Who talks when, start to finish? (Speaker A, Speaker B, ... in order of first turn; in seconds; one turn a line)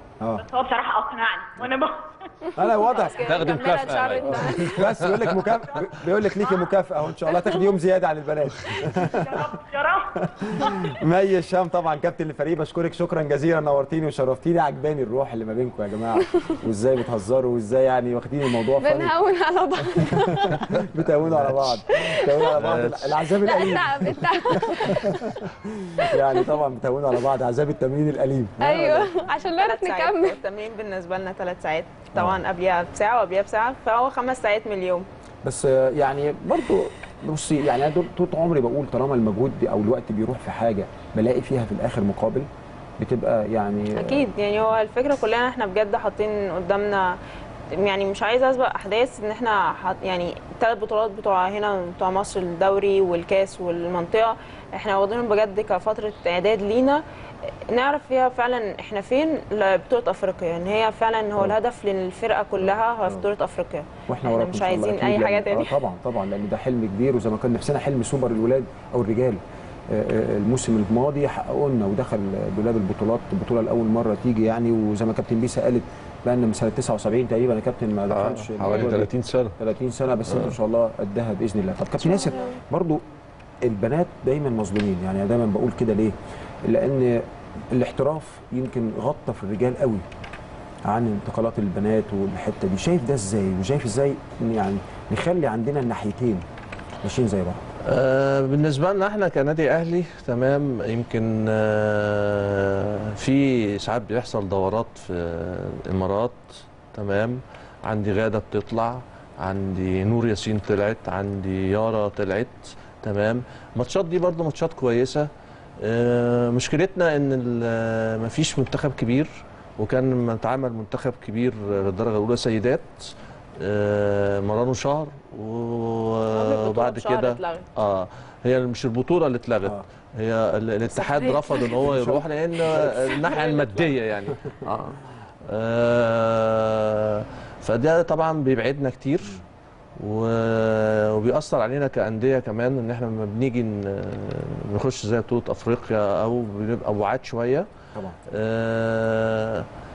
Speaker A: 0.4-3.7
Speaker B: 2.5-3.5
Speaker C: 2.9-4.8
Speaker D: 3.1-5.5
Speaker B: 4.2-9.5
Speaker A: 8.8-10.9
Speaker B: 10.2-19.1
Speaker E: 18.8-20.8
Speaker B: 19.9-29.2
Speaker D: 21.2-21.7
Speaker E: 21.9-22.5
Speaker D: 22.5-23.3
Speaker E: 23.4-25.4
Speaker E: 26.1-26.5
Speaker E: 28.6-30.4
Speaker C: 29.4-35.1
Speaker B: 32.1-32.4
Speaker B: 35.4-42.5
Speaker B: 43.0-44.3
Speaker C: 44.0-47.2
Speaker C: 47.7-57.0
Speaker C: 57.7-65.7
Speaker B: 62.5-63.3
Speaker B: 64.1-83.0
Speaker D: 78.1-79.5
Speaker D: 80.3-80.5
Speaker E: 82.1-82.6
Speaker B: 83.6-90.0
Speaker B: 90.8-96.4
Speaker B: 97.0-97.6
Speaker D: 97.9-115.3
Speaker D: 115.8-139.4
Speaker C: 126.3-127.6
Speaker B: 131.6-134.6
Speaker D: 140.0-147.7
Speaker D: 148.3-149.7